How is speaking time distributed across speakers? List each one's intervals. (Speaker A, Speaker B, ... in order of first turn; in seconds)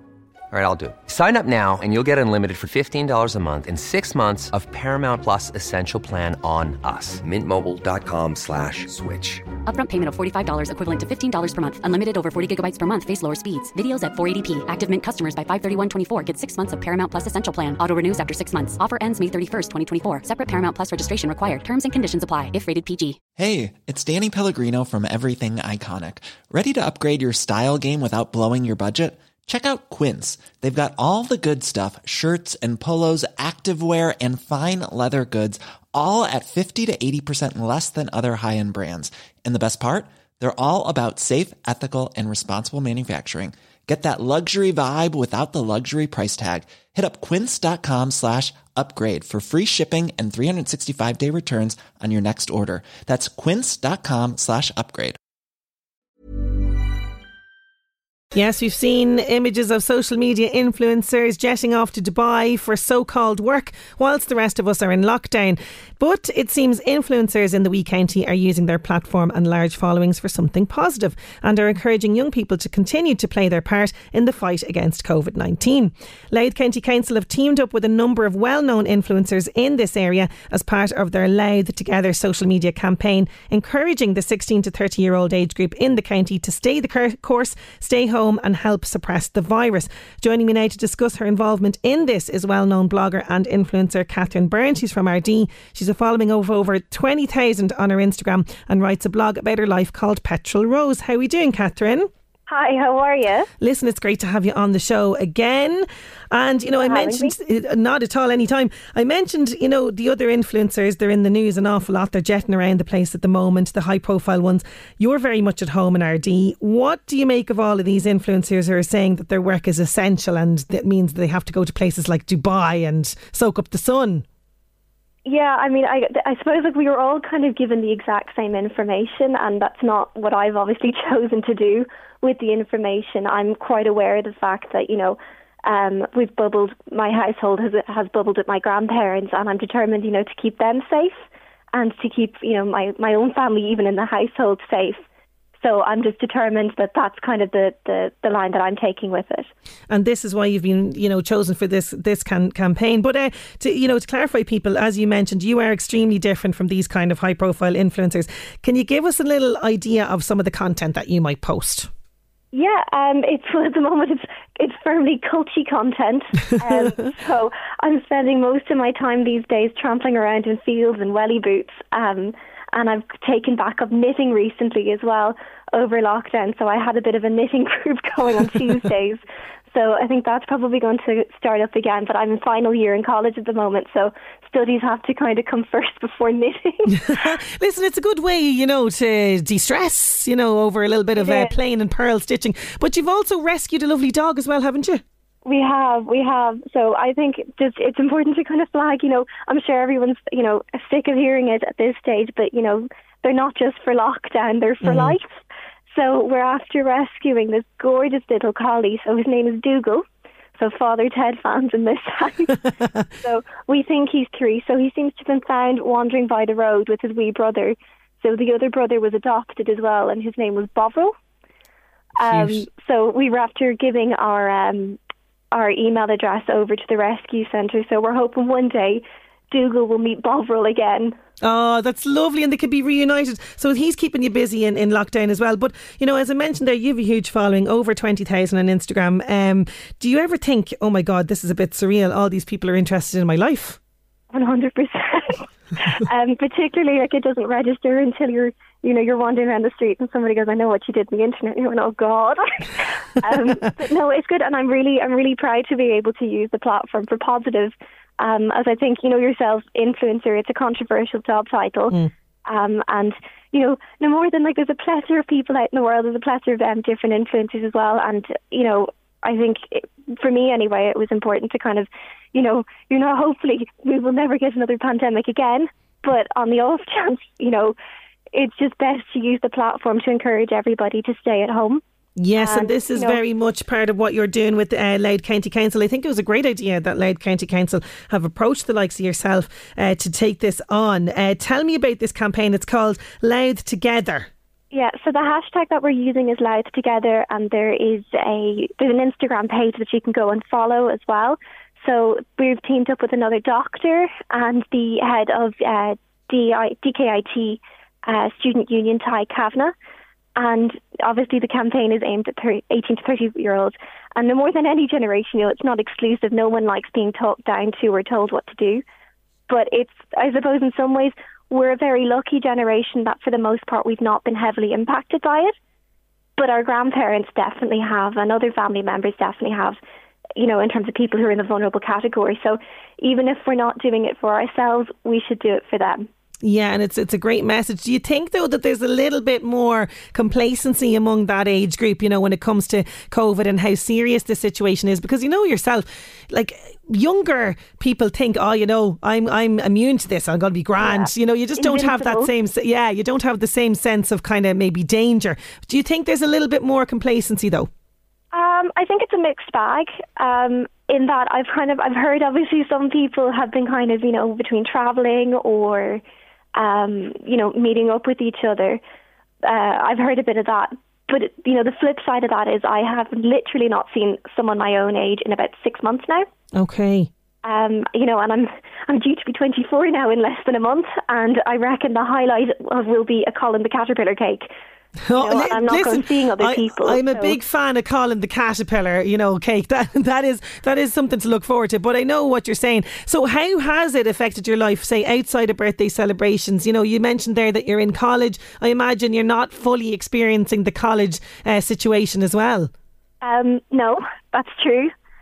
Speaker A: 0.5-9.4
Speaker B: 9.6-23.2
Speaker C: 23.4-55.2
Speaker D: 58.3-102.1, 103.6-124.2, 149.9-161.9, 186.9-195.0, 204.8-205.2, 222.2-222.7, 231.4-243.8, 282.2-294.3, 336.4-357.7, 376.5-377.1, 385.1-402.7
Speaker E: 102.5-103.5, 106.8-107.3, 125.2-145.0, 145.6-149.5, 162.5-179.2, 179.7-187.4, 191.2-191.5, 195.4-205.2, 205.9-210.0, 210.6-221.1, 222.2-225.0, 225.5-231.2, 244.3-277.8, 278.3-281.8, 282.4-283.2, 294.7-309.7, 310.4-318.8, 319.5-325.5, 326.4-329.8, 330.4-336.0, 350.8-352.3, 358.3-366.0, 366.6-368.8, 369.4-376.2, 377.4-384.5, 385.2-387.4, 403.2-404.9